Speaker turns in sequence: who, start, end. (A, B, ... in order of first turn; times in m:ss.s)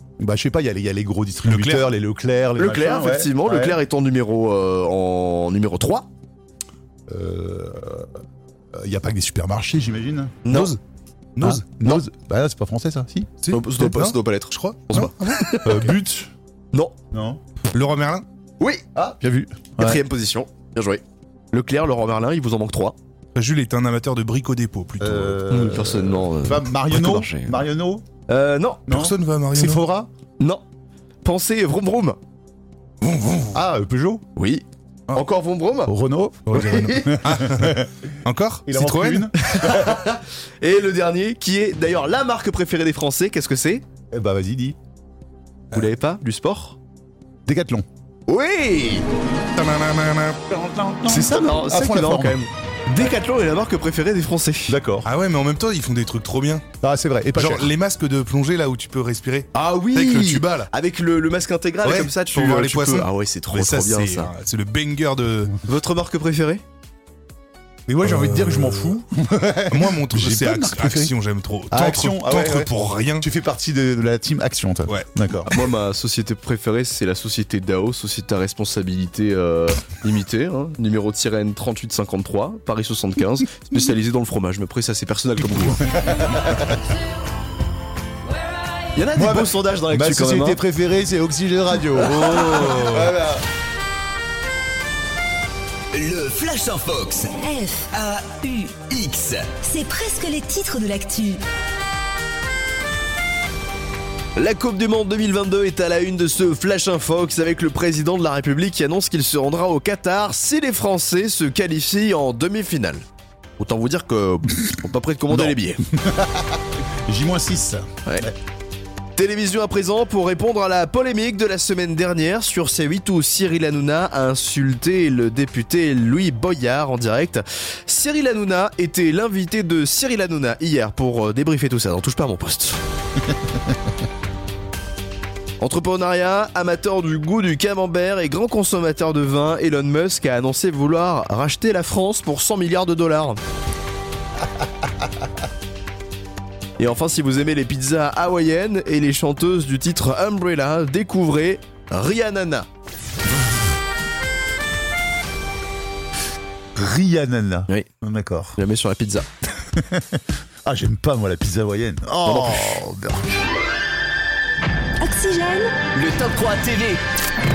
0:00.2-0:03.8 A
0:01.4-0:01.9 B
0:02.6-0:06.1 C
0:07.1-0:08.1 A
0:08.7-0:10.4 A
0:10.4-0:10.8 C
0:10.5-0:10.8 B
0:11.4-0:11.7 B
0:11.4-0:13.4 A
0:13.4-0:15.5 B
0:13.5-0:15.9 C
0:15.6-0:16.3 A
0:17.1-0:17.4 A
0:17.7-0:18.2 B
0:18.6-0:23.0 C
0:19.0-0:19.2 A
0:23.4-0:25.4 B
0:25.0-0:28.0 A
0:25.5-0:27.6 C
0:28.3-0:28.9 C
0:28.9-0:29.8 B
0:28.9-0:30.1 A
0:31.2-0:32.2 C
0:33.0-0:33.5 B
0:33.5-0:34.2 A
0:34.4-0:35.9 C
0:35.9-0:37.9 A
0:36.5-0:37.2 C
0:36.6-0:39.3 B
0:38.7-0:40.0 A
0:39.4-0:43.8 C
0:44.1-0:44.8 A
0:45.7-0:46.8 C
0:47.5-0:47.8 A
0:48.3-0:49.1 C
0:49.6-0:50.4 B
0:50.5-0:52.4 A
0:51.1-0:54.8 C
0:54.7-0:55.1 A
0:55.0-0:56.6 B
0:56.8-0:57.7 A
0:57.3-1:00.7 B
0:59.5-1:00.5 A
1:00.7-1:04.3 C
1:01.8-1:05.5 B
1:05.6-1:06.6 C
1:07.9-1:11.1 A
1:08.0-1:09.0 B
1:09.7-1:13.2 B
1:11.7-1:15.5 A
1:15.5-1:25.8 C
1:26.0-1:26.6 A
1:29.0-1:30.6 C
1:29.2-1:33.1 A
1:32.0-1:33.2 C
1:32.2-1:33.1 B
1:35.9-1:37.4 D
1:37.4-1:37.9 E
1:37.9-1:39.6 D
1:39.6-1:41.4 E
1:44.4-1:53.1 C
1:53.6-1:55.8 C
1:55.3-1:58.4 A
1:59.2-2:12.8 C
2:15.6-2:23.4 C
2:26.8-2:32.7 C
2:36.8-2:38.6 A
2:38.6-2:39.3 C
2:39.8-2:43.2 A
2:42.3-2:42.9 C
2:45.0-2:45.7 E
2:45.9-2:47.0 D